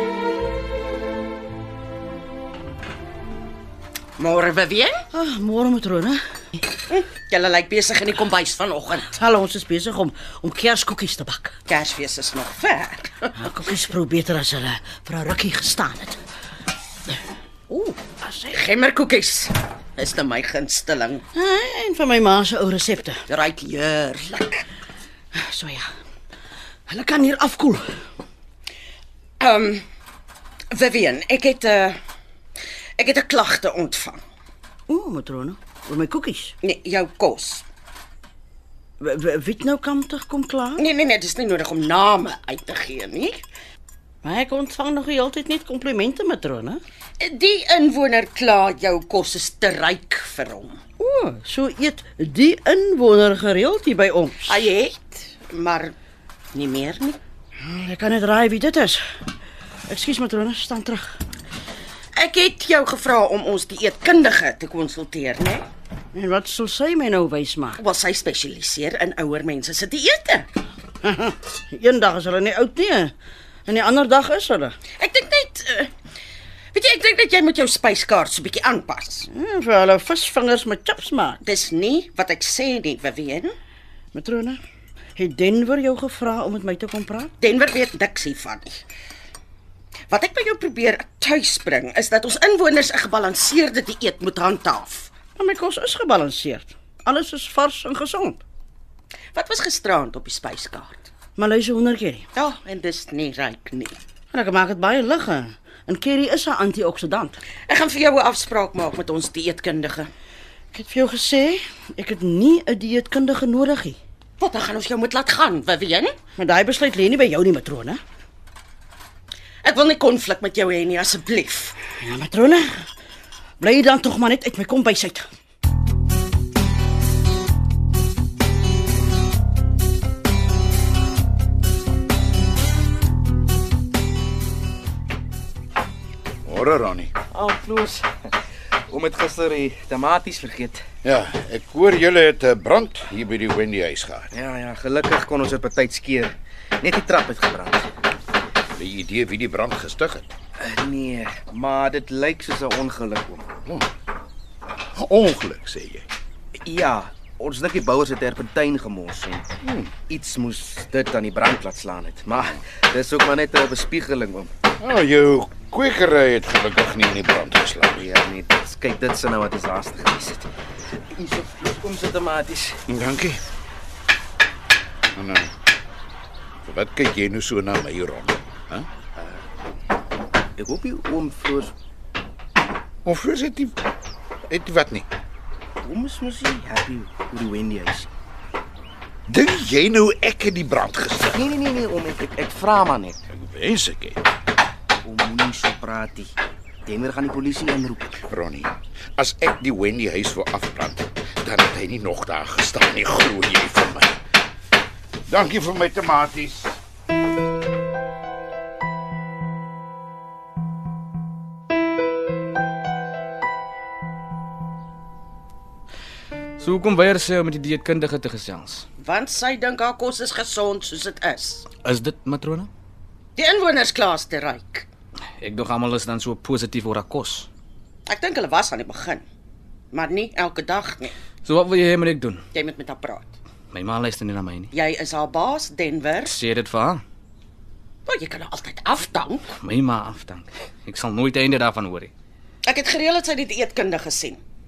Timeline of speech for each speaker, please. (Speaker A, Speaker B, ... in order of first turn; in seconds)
Speaker A: 4.2-5.0, 6.9-9.1, 11.7-13.3, 18.5-21.2, 23.3-24.6, 29.4-29.8, 30.7-32.0, 33.0-34.2, 36.6-37.6, 40.8-43.4, 47.2-50.8, 54.5-55.9, 56.5-57.2, 62.1-65.6, 67.8-70.5, 75.0-75.9, 76.7-79.3, 81.4-83.5, 87.4-88.8, 90.1-95.1, 99.3-101.1, 102.3-104.0, 107.7-110.1, 114.4-116.1, 119.6-121.8, 219.0-221.7, 223.3-224.8, 228.1-229.2, 229.9-231.1, 232.5-233.3, 234.7-236.3, 238.1-239.4, 242.6-244.4
Speaker B: 5.1-6.2, 9.1-11.6, 13.3-16.2, 17.9-18.5, 21.3-23.2, 25.3-25.9, 26.9-28.0, 34.9-36.6, 39.0-40.8, 44.2-46.8, 51.0-54.6, 57.6-59.0, 59.9-61.2, 66.1-67.8, 71.0-73.1, 73.7-74.8, 79.3-81.4, 84.1-84.6, 85.2-87.3, 95.3-98.4, 101.3-102.3, 104.3-107.4, 110.7-114.0, 116.3-118.0, 121.9-122.8, 123.6-125.2
Speaker C: 136.4-137.1, 141.0-144.3, 148.7-150.3, 154.9-156.1, 159.6-159.9, 164.8-168.1, 172.9-173.4, 175.1-175.5, 176.6-178.9, 183.0-183.8, 184.5-185.1, 189.3-191.4, 193.3-194.2, 198.2-204.2, 205.2-206.8
Speaker D: 137.3-138.3, 138.9-140.8, 144.3-147.9, 150.6-153.5, 156.6-159.4, 160.0-164.5, 167.9-170.5, 171.1-172.8, 180.6-181.7, 185.8-188.1, 191.3-193.2, 195.0-196.3, 196.8-198.1
Speaker E: 216.6-218.8, 221.8-222.7, 225.4-227.5, 231.4-232.4, 233.7-234.7, 236.2-237.0, 239.6-242.1